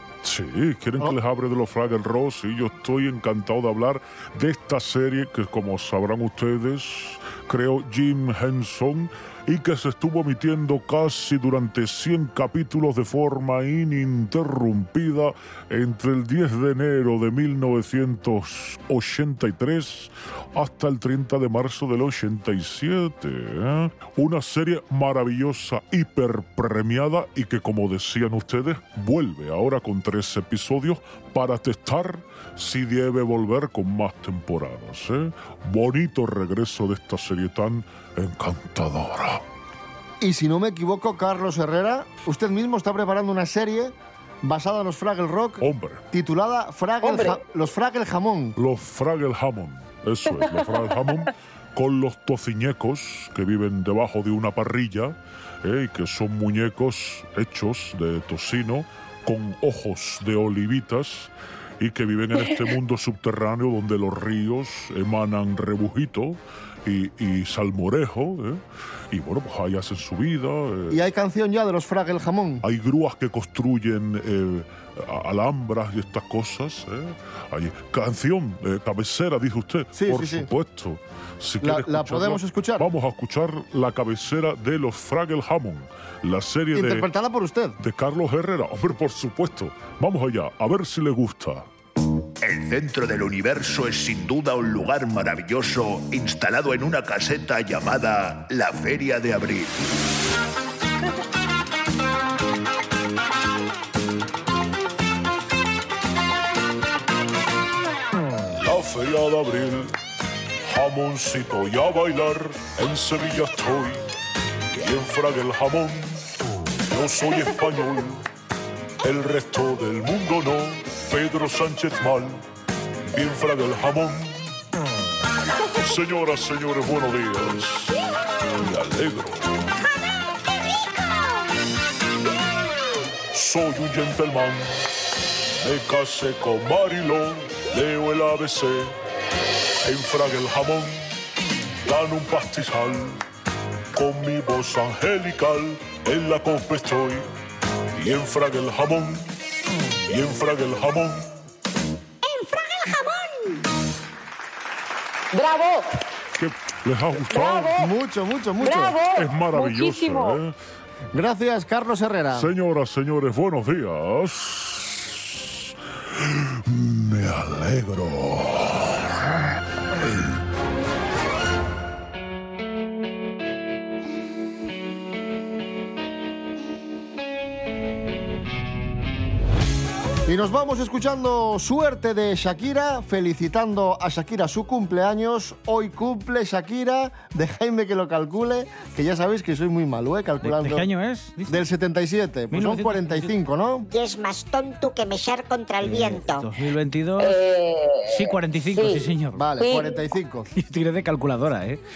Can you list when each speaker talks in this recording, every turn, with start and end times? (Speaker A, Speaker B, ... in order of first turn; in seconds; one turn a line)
Speaker A: 0.2-39.4
Speaker B: 40.2-48.6
Speaker A: 45.6-46.0
Speaker C: 47.0-47.4
Speaker A: 48.6-71.0
Speaker C: 50.4-50.8
Speaker B: 70.9-72.7
Speaker A: 72.6-87.1
Speaker B: 79.9-80.5
Speaker B: 81.6-82.9
Speaker B: 86.7-87.8
Speaker A: 87.8-91.7
Speaker D: 92.4-99.8
Speaker A: 108.6-109.9
Speaker A: 110.7-114.0
Speaker A: 114.7-116.2
Speaker A: 116.9-118.2
Speaker A: 119.0-122.4
Speaker A: 123.1-124.5
Speaker A: 125.7-128.0
Speaker A: 128.6-129.4
Speaker E: 130.7-131.2
Speaker A: 133.3-134.7
Speaker A: 135.6-138.9
Speaker A: 139.8-141.1
Speaker A: 141.8-143.2
Speaker A: 143.9-147.3
Speaker A: 148.0-149.2
Speaker A: 150.1-151.2
Speaker E: 152.2-153.6
Speaker C: 155.3-156.0
Speaker A: 156.4-157.7
Speaker C: 157.2-157.9
Speaker B: 157.7-159.0
Speaker C: 158.6-160.4
Speaker A: 159.2-160.6
Speaker B: 161.1-162.5
Speaker A: 162.3-165.6
Speaker A: 166.2-169.4
Speaker A: 169.9-170.3
Speaker B: 180.3-190.9
Speaker F: 190.4-191.7
Speaker B: 191.5-193.9
Speaker F: 192.5-193.3
Speaker E: 193.8-196.5
Speaker F: 195.8-197.4
Speaker C: 197.2-200.0
Speaker F: 198.1-199.5
Speaker B: 199.3-200.5
Speaker F: 200.6-201.8